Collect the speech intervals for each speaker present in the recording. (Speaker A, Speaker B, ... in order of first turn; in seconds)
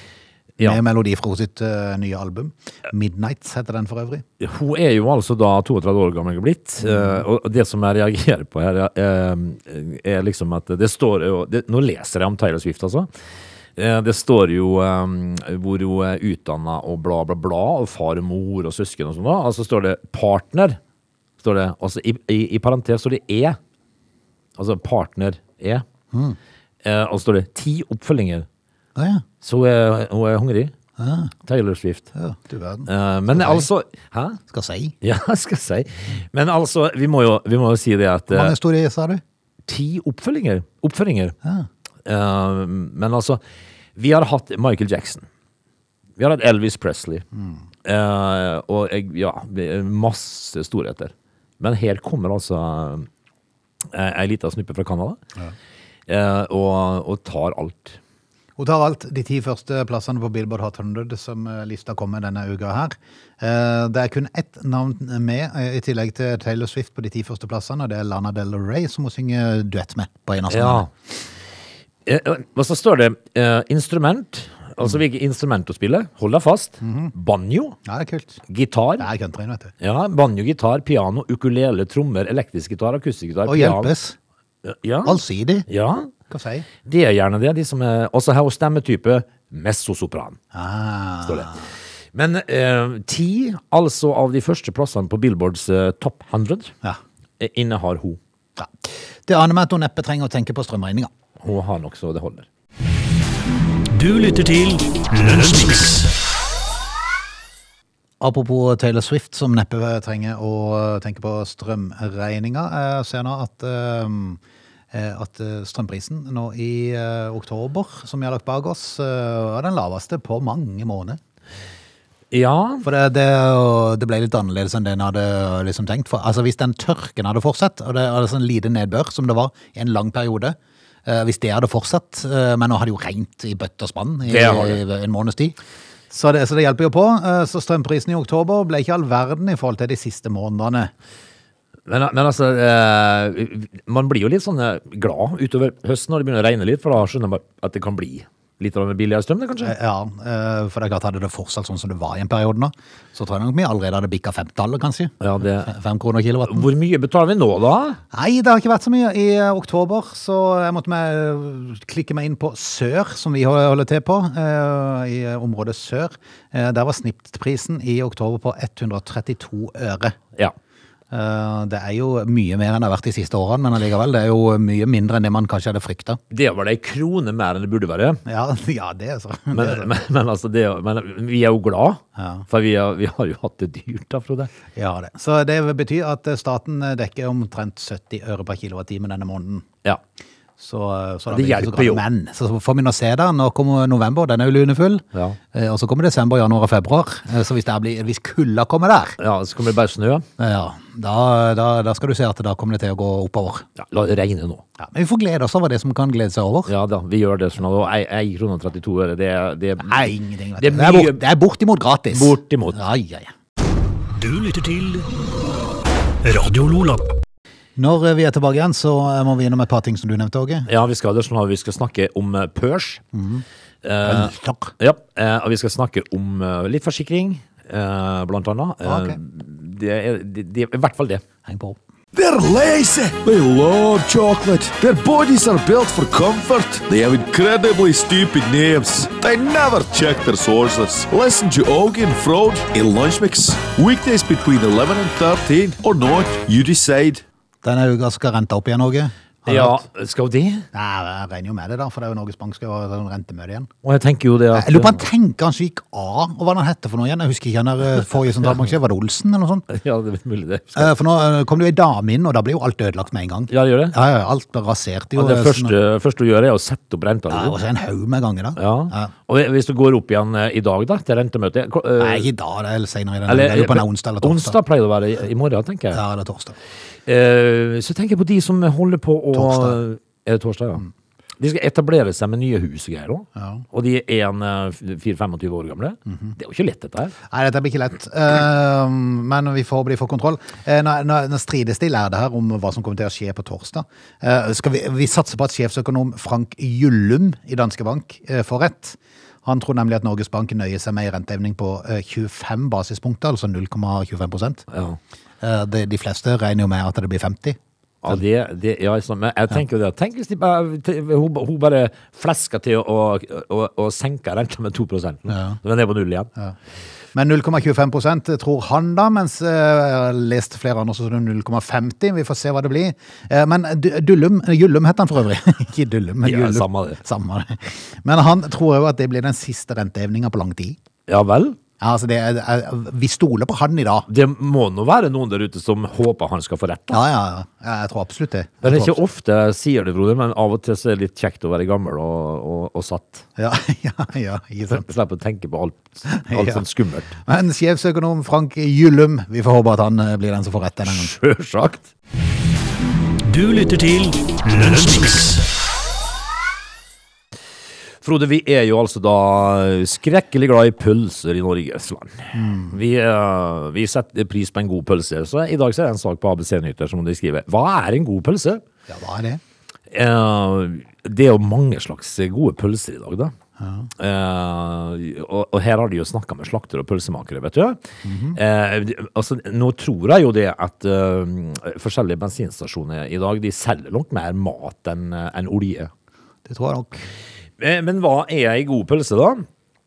Speaker A: 0.6-4.2, 6.8-7.2, 26.1-26.4, 28.9-29.2, 31.0-31.3, 32.1-33.7, 34.5-34.9, 38.3-39.2, 58.6-70.9, 76.8-77.1, 77.8-78.4, 79.0-79.7, 83.5-84.2, 85.0-85.7, 86.3-86.7, 90.5-91.7, 98.6-101.1, 108.2-114.4, 114.9-121.2, 122.8-135.6, 136.1-140.9, 149.6-156.7, 158.1-170.2, 171.1-176.2, 178.2-179.9, 182.2-182.4, 184.7-189.7, 190.6-199.2, 200.4-203.7, 204.8-206.7, 209.8-213.3, 217.8-220.7, 223.1-223.4, 224.0-224.7, 228.8-229.2, 231.4-231.8, 247.6-249.8, 250.7-253.7, 254.5-259.7, 260.7-265.7, 267.3-269.1, 272.0-274.6, 275.9-276.6, 279.3-279.8, 283.4-283.6, 286.1-286.3, 287.3-304.6, 305.4-307.6, 315.3-315.6, 317.1-330.8, 331.8-334.1, 336.9-339.0, 343.4-344.9, 346.1-346.6, 347.2-351.1, 362.3-362.8, 368.9-369.4, 373.6-373.9, 378.0-378.4, 386.4-387.1
Speaker B: 4.4-13.1, 13.8-20.8, 21.4-23.6, 24.6-25.8, 26.8-28.5, 29.4-30.7, 31.4-32.1, 32.9-34.4, 35.0-38.5, 39.6-41.3, 42.0-43.4, 44.0-45.2, 46.2-47.2, 47.8-53.1, 53.9-55.2, 56.1-58.0, 70.5-70.9, 72.0-77.8, 78.5-79.1, 79.8-83.9, 84.6-86.1, 86.8-90.4, 91.2-91.5, 92.1-96.7, 97.4-98.2, 101.4-102.5, 122.3-122.8, 134.3-134.8, 141.9-149.7, 155.2-155.7, 156.4-158.0, 176.3-178.2, 179.5-184.5, 191.3-192.0, 199.2-200.2, 203.8-204.6, 206.7-211.2, 212.1-212.8, 220.7-223.0, 223.8-231.2, 249.5-250.7, 253.8-255.0, 259.7-260.9, 263.5-263.9, 265.1-267.6, 268.6-272.3, 273.3-276.0, 277.1-280.9, 281.4-287.1, 304.7-305.0, 308.0-316.3, 326.2-327.0, 331.1-331.6, 334.1-337.0, 338.6-343.2, 344.7-347.1, 350.8-351.9, 358.0-368.6, 369.9-373.3, 374.0-377.8, 378.3-385.9, 387.6-389.4
Speaker C: 103.9-106.1, 214.1-215.1, 216.2-217.1, 353.2-355.4
Speaker D: 232.1-247.2